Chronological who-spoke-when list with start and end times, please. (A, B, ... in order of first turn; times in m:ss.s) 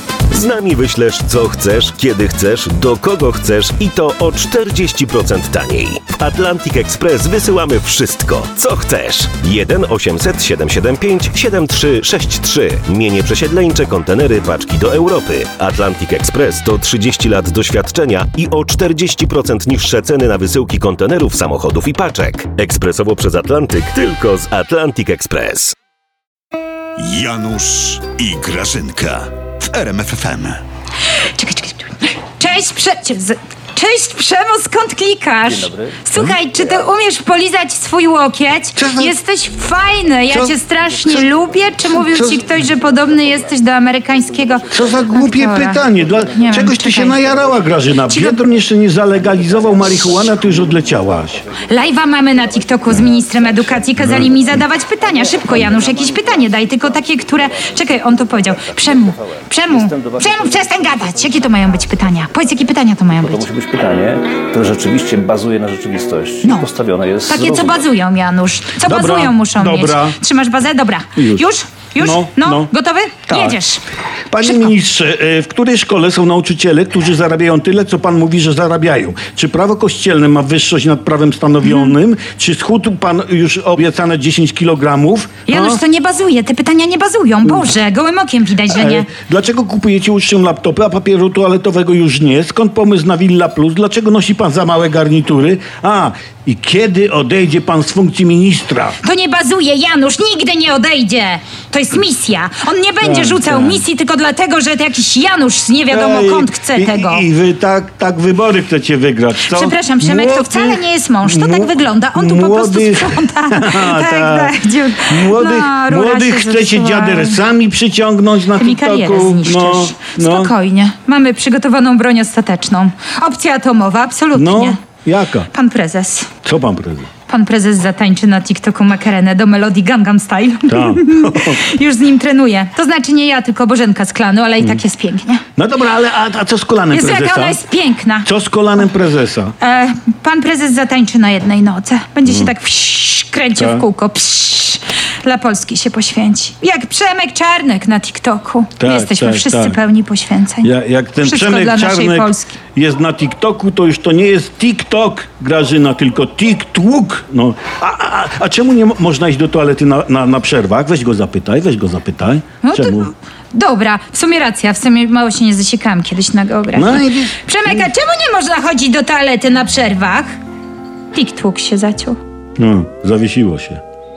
0:00.3-0:25.7 A
0:27.0-0:30.6 B
0:31.2-0:47.2 C
0:35.5-0:36.0 D
0:38.7-0:39.1 E
0:40.3-0:40.5 E
0:41.1-0:43.6 D
0:42.0-0:42.4 E
0:44.1-0:45.2 D
0:44.7-0:51.4 E
0:45.8-0:46.5 D
0:47.1-0:47.9 D
0:48.0-0:48.4 C
0:49.2-1:02.1 D
0:51.6-1:03.5 C
1:03.2-1:07.8 D
1:06.4-1:06.7 C
1:07.2-1:13.8 C
1:08.8-1:10.2 E
1:11.2-1:11.4 E
1:12.0-1:12.7 E
1:13.3-1:13.6 E
1:14.3-1:25.8 E
1:14.4-1:14.7 C
1:21.6-1:21.9 C
1:25.5-1:29.1 C
1:27.4-1:27.7 E
1:28.7-1:39.0 E
1:39.0-1:47.2 C
1:43.0-1:43.8 E
1:45.9-2:00.5 E
1:49.4-1:57.4 C
1:58.5-2:04.8 C
2:04.3-2:05.5 E
2:05.5-2:06.3 C
2:06.4-2:07.1 E
2:07.3-2:15.4 C
2:10.7-2:11.6 E
2:15.6-2:17.6 E
2:16.9-2:18.3 C
2:18.2-2:19.5 E
2:19.6-2:30.7 C
2:22.2-2:22.5 E
2:23.6-2:23.8 E
2:28.8-2:29.8 E
2:30.6-2:43.1 E
2:31.2-2:32.5 C
2:42.6-2:50.4 C
2:46.7-2:47.9 E
2:51.1-2:52.2 C
2:52.6-2:53.8 E